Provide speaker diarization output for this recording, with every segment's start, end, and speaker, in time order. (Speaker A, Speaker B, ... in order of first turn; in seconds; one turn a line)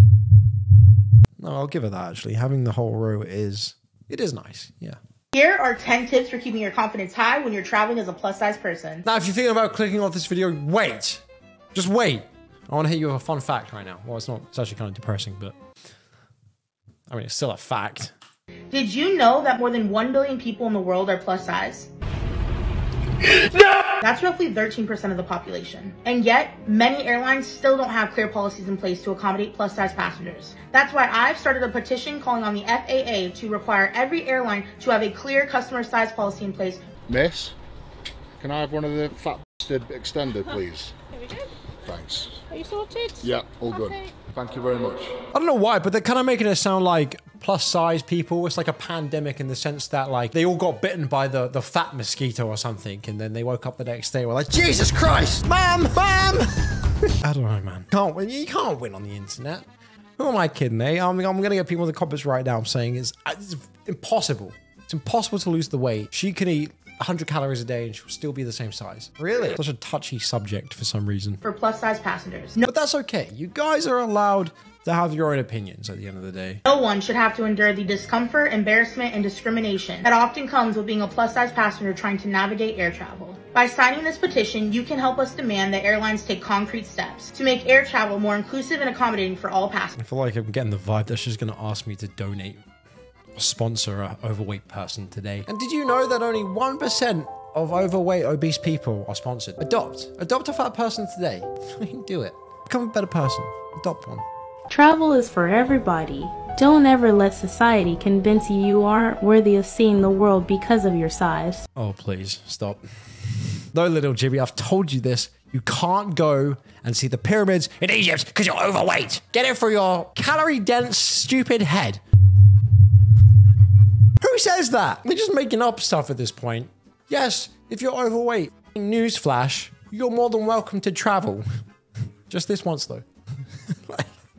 Speaker A: 1.4-5.0
Speaker B: 5.3-9.1
Speaker A: 9.0-11.2
Speaker A: 11.7-15.6
Speaker A: 17.1-18.1
Speaker B: 18.7-21.9
Speaker B: 24.0-36.8
Speaker C: 37.1-37.5
Speaker C: 38.4-40.9
Speaker C: 41.9-42.4
Speaker C: 43.2-45.1
Speaker A: 45.3-59.6
Speaker A: 60.2-71.4
Speaker B: 71.4-72.6
Speaker A: 72.6-76.6
Speaker B: 76.7-90.0
Speaker A: 90.0-92.6
Speaker A: 93.3-104.2
Speaker D: 104.7-111.6
Speaker A: 111.7-122.0
Speaker A: 124.2-131.4
Speaker A: 132.3-133.0
Speaker A: 133.7-134.1